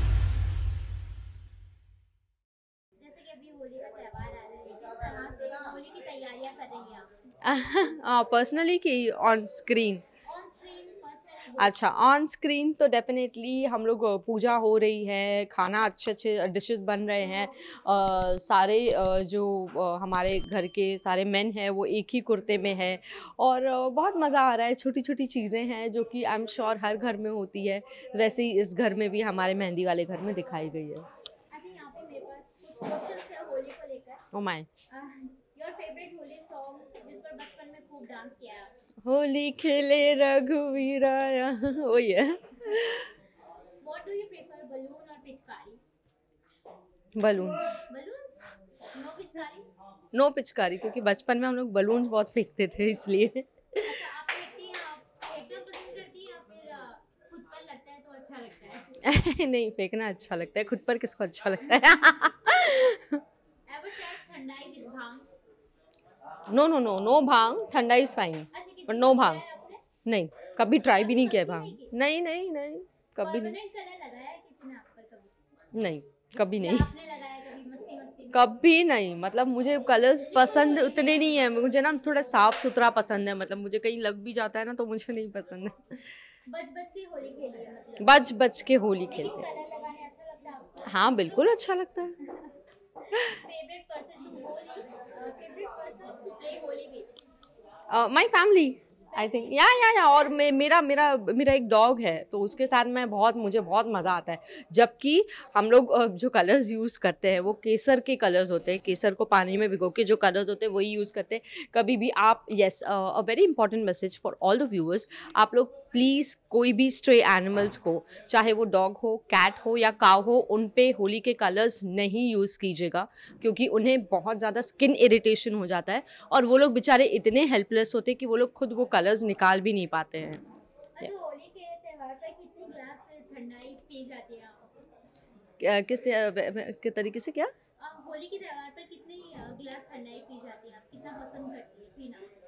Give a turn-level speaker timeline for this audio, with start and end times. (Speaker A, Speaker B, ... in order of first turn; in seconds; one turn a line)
Speaker A: 3.0-7.1
Speaker B: 7.4-10.0
Speaker A: 10.2-11.9
Speaker B: 11.6-31.1
Speaker A: 31.5-34.2
Speaker B: 34.3-34.7
Speaker A: 34.9-38.7
Speaker B: 39.0-43.1
Speaker A: 43.8-45.8
Speaker B: 47.2-47.9
Speaker A: 47.6-49.7
Speaker B: 50.1-54.0
Speaker A: 53.8-59.0
Speaker B: 59.0-63.2
Speaker A: 61.6-62.3
Speaker A: 63.7-65.3
Speaker B: 66.5-69.4
Speaker A: 68.5-69.8
Speaker B: 70.0-73.6
Speaker A: 70.9-71.9
Speaker A: 73.2-75.4
Speaker B: 75.8-76.9
Speaker A: 76.4-78.5
Speaker B: 78.3-86.2
Speaker A: 80.1-81.4
Speaker A: 86.5-88.4
Speaker B: 88.0-89.5
Speaker A: 89.0-91.6
Speaker B: 90.9-92.2
Speaker A: 92.2-92.5
Speaker B: 93.1-93.4
Speaker A: 93.1-97.1
Speaker B: 97.9-130.4
Speaker A: 99.1-99.8
Speaker A: 131.0-134.7
Speaker B: 135.6-137.5
Speaker A: 137.8-142.2